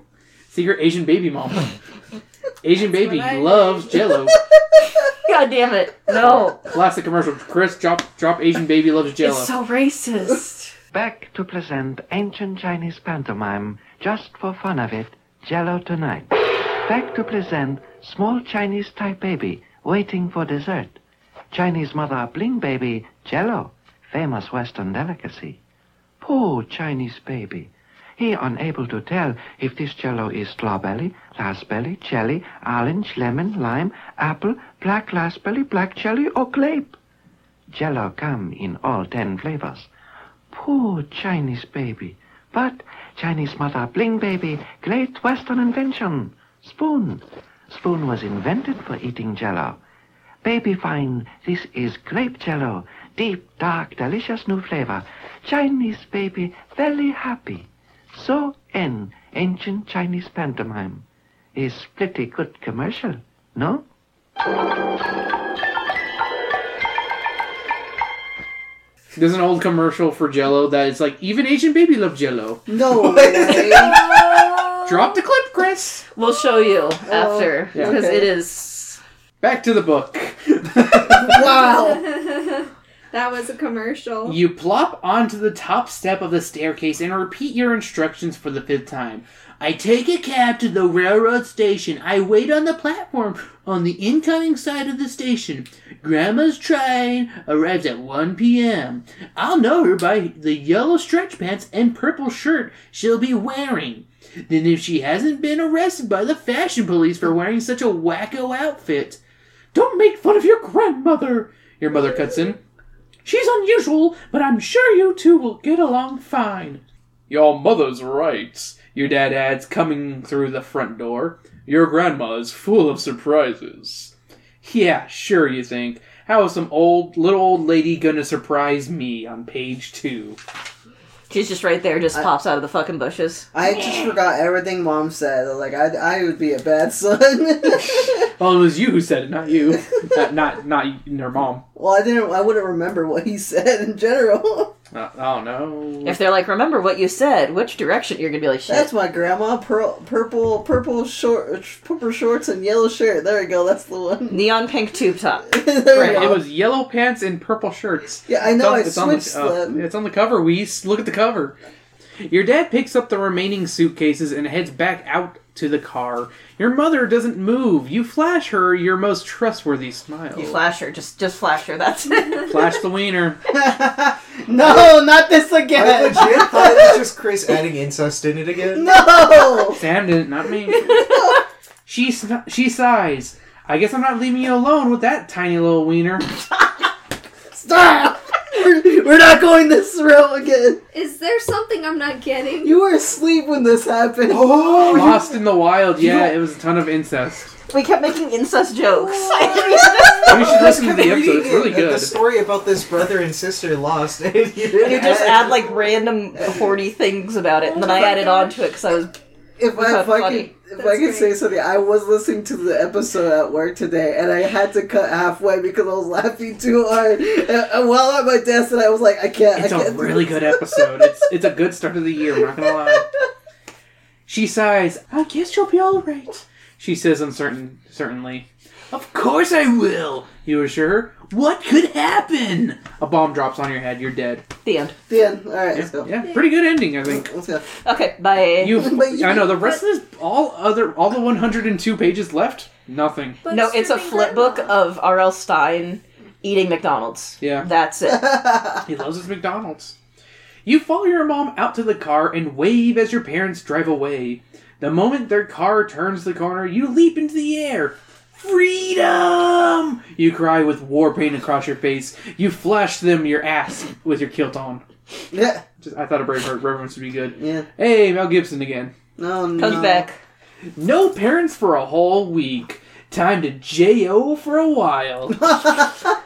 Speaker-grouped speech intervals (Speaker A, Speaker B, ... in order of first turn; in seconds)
Speaker A: 0.5-1.7, 2.6-4.4, 6.2-9.5, 69.2-72.7, 74.8-76.0, 79.4-81.3, 84.2-109.2, 109.7-112.6, 113.2-130.4, 133.6-134.2, 137.8-141.6, 144.9-146.2, 155.9-161.6, 162.3-170.6, 172.5-173.4, 179.7-181.0, 181.9-186.3, 194.9-197.5, 200.3-202.2, 219.6-223.1, 224.3-234.5, 235.7-237.3, 238.6-243.4, 247.4-247.7, 248.8-249.9, 250.7-264.8, 265.8-268.9, 270.8-275.8
Speaker B: 2.8-4.0, 73.6-75.2, 81.4-84.4, 190.9-192.8, 198.9-200.1, 207.7-208.5, 210.8-211.4, 236.2-236.5, 243.4-244.8
Speaker C: 5.2-6.6, 9.2-10.7, 76.2-79.0, 131.3-133.5, 146.0-148.9, 154.3-156.4, 170.3-172.6, 197.7-200.5, 204.8-209.2, 209.8-210.5, 234.7-235.0, 237.8-238.9, 243.5-248.4, 269.6-270.2
Speaker D: 10.9-21.0, 21.5-25.6, 26.2-37.0, 37.7-39.9, 40.5-49.8, 50.4-63.9
Speaker E: 72.7-74.0, 77.1-78.3, 80.8-82.1, 133.5-138.2, 141.8-144.7, 148.7-154.4, 155.5-156.4, 158.3-159.8, 173.5-177.1, 178.7-179.8, 180.8-181.4, 187.5-190.8, 192.6-195.3, 200.2-200.6, 207.9-208.2, 209.6-221.3, 222.6-223.0, 235.1-236.1, 237.0-237.7, 238.7-239.8, 248.1-248.8, 265.3-265.6, 267.4-267.7, 269.2-270.1, 275.4-276.1
Speaker F: 73.0-73.6, 174.6-174.9, 175.7-179.0, 194.3-195.4, 196.0-196.3, 200.3-205.7